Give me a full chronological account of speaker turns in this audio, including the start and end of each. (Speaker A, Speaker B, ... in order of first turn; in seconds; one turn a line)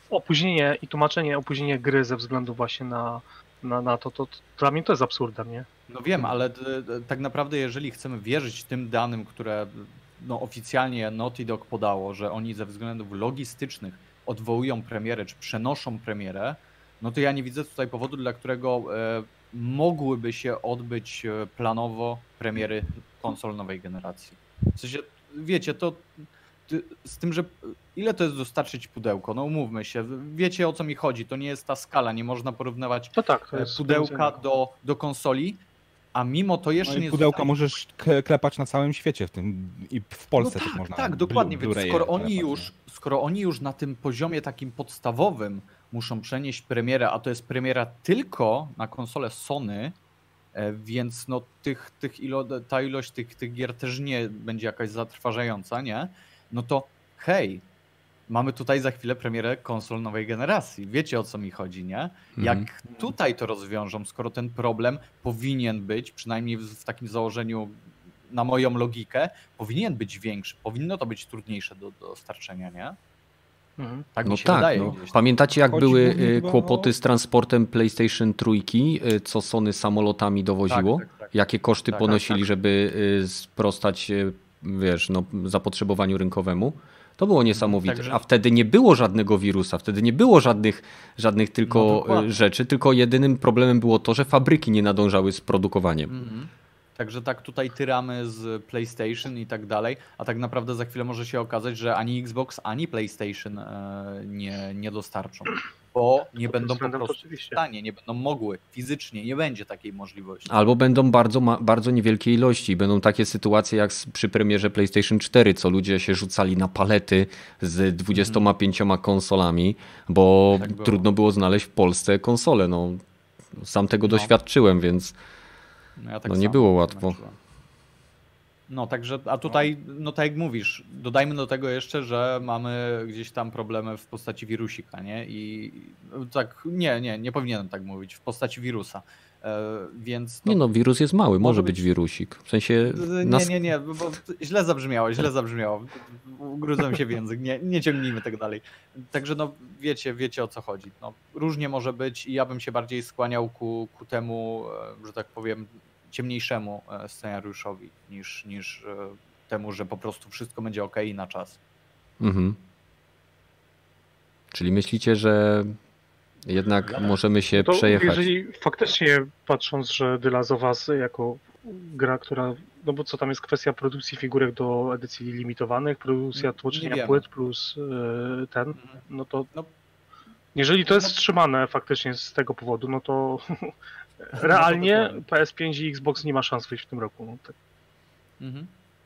Speaker A: 0.1-5.7
Speaker B: 5.9-35.6
Speaker A: 33.1-34.4
Speaker B: 36.1-37.6
Speaker C: 36.8-42.7
Speaker B: 40.4-49.9
Speaker B: 50.5-57.6
Speaker B: 58.3-73.0
Speaker D: 62.4-62.7
Speaker A: 73.8-74.1
Speaker B: 74.1-75.3
Speaker D: 74.2-96.1
Speaker C: 75.6-76.9
Speaker B: 80.7-81.3
Speaker B: 81.9-82.5
Speaker B: 87.5-88.2
Speaker B: 91.7-92.3
Speaker B: 96.1-110.7
Speaker A: 106.5-107.6
Speaker D: 110.5-123.0
Speaker B: 118.1-118.5
Speaker B: 120.5-121.0
Speaker D: 123.6-125.1
Speaker B: 124.0-124.3
Speaker B: 126.0-127.4
Speaker D: 126.3-127.2
Speaker B: 128.7-140.6
Speaker D: 140.5-143.5
Speaker B: 141.4-141.8
Speaker B: 142.9-161.6
Speaker D: 162.2-162.6
Speaker D: 164.5-165.8
Speaker D: 166.4-168.3
Speaker B: 166.8-167.1
Speaker A: 167.6-179.5
Speaker B: 176.3-177.2
Speaker B: 178.8-179.7
Speaker A: 180.6-183.7
Speaker A: 184.3-187.5
Speaker B: 184.3-185.2
Speaker B: 188.4-188.7